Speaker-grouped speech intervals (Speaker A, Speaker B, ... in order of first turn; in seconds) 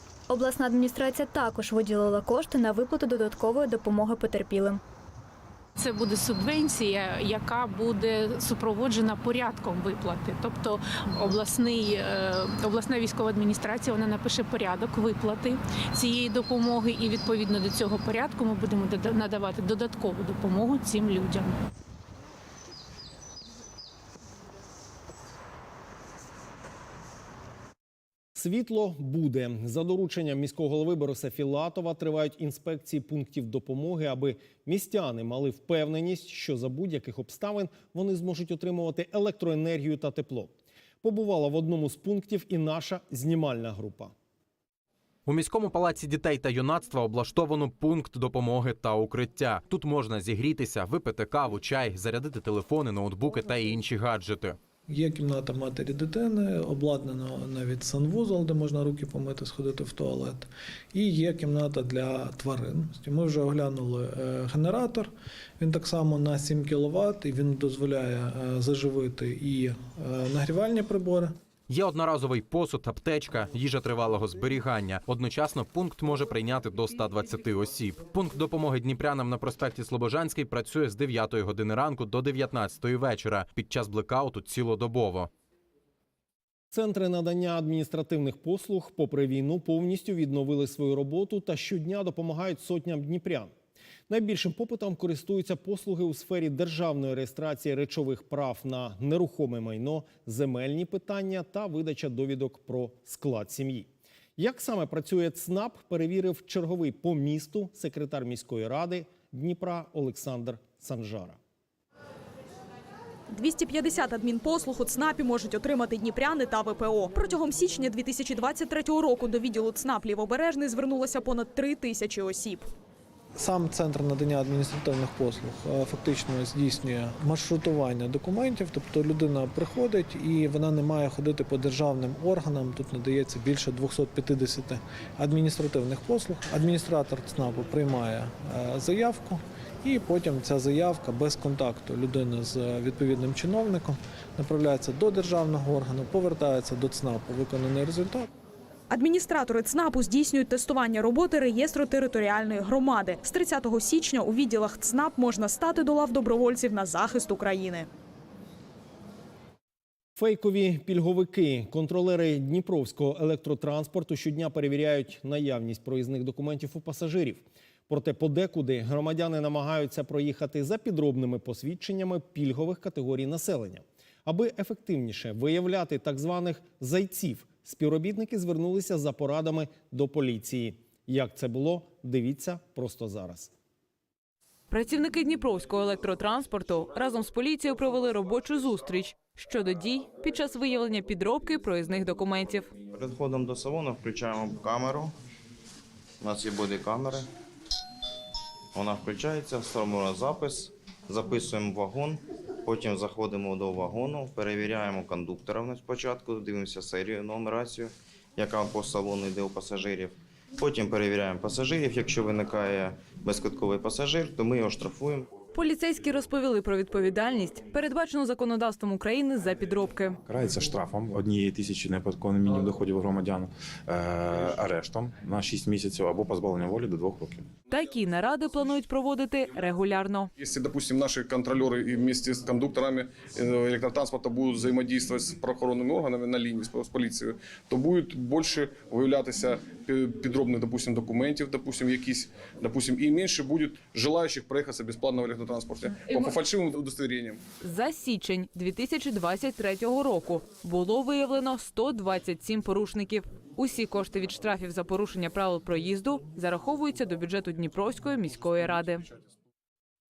Speaker A: 0.3-4.8
Speaker B: 5.8-21.6
Speaker C: 28.4-44.1, 86.7-93.5, 94.1-111.4, 160.2-183.5
Speaker D: 45.3-54.6, 71.7-85.3
Speaker E: 54.9-71.4, 123.4-148.3
Speaker F: 113.3-122.7, 148.9-157.9
Speaker G: 184.7-192.7, 215.5-220.2, 227.7-230.3, 246.1-246.4, 247.6-259.1
Speaker H: 192.8-195.1, 196.2-197.3, 198.8-215.3
Speaker I: 220.3-227.5
Speaker J: 230.4-247.4